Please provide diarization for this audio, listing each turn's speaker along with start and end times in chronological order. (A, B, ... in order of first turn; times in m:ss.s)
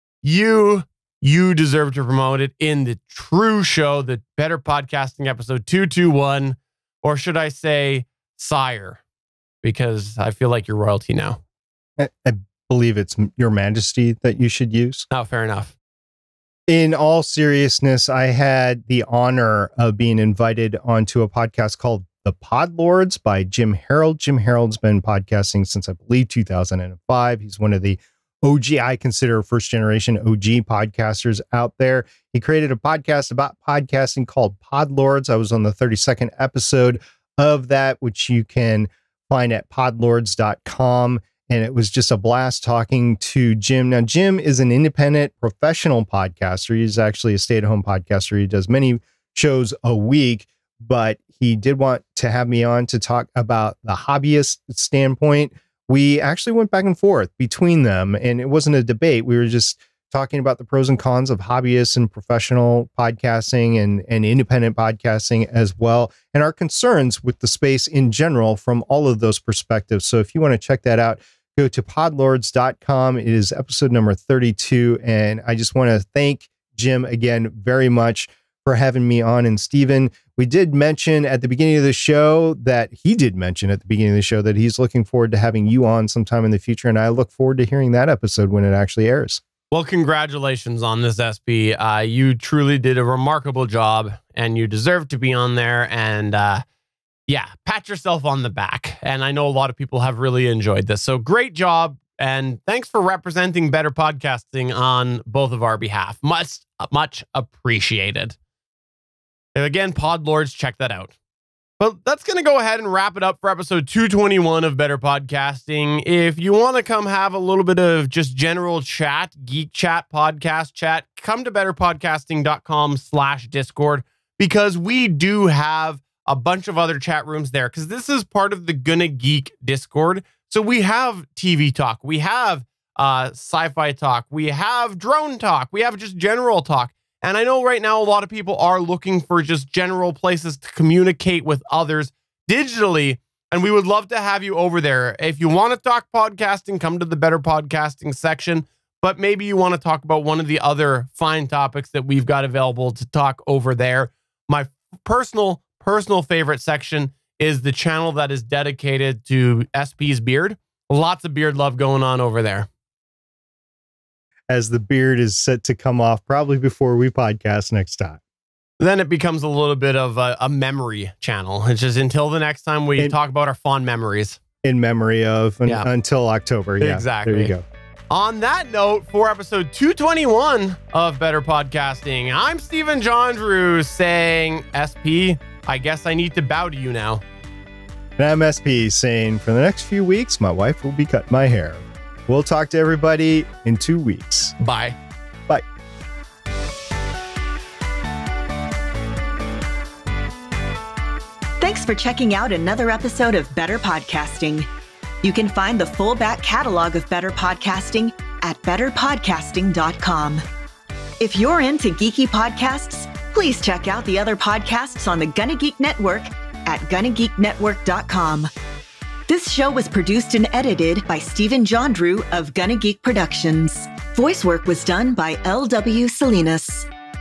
0:00.2-0:09.0 A
0:09.6-0:11.4 A
0:12.0-0:15.1 B
0:15.1-0:15.8 A
0:16.7-1:29.4 B
1:29.7-1:36.6 A
1:37.3-1:48.4 A
1:49.6-1:51.2 A
1:51.8-2:42.7 A
2:44.5-2:48.2 B
2:48.8-2:54.4 A
2:54.6-2:57.6 B
2:56.8-2:57.5 A
2:58.1-3:07.2 A
3:08.2-3:14.5 B
3:14.6-3:15.0 A
3:21.6-3:24.7 C
3:25.2-3:30.4 C
3:31.2-3:38.5 C
3:39.3-3:46.9 C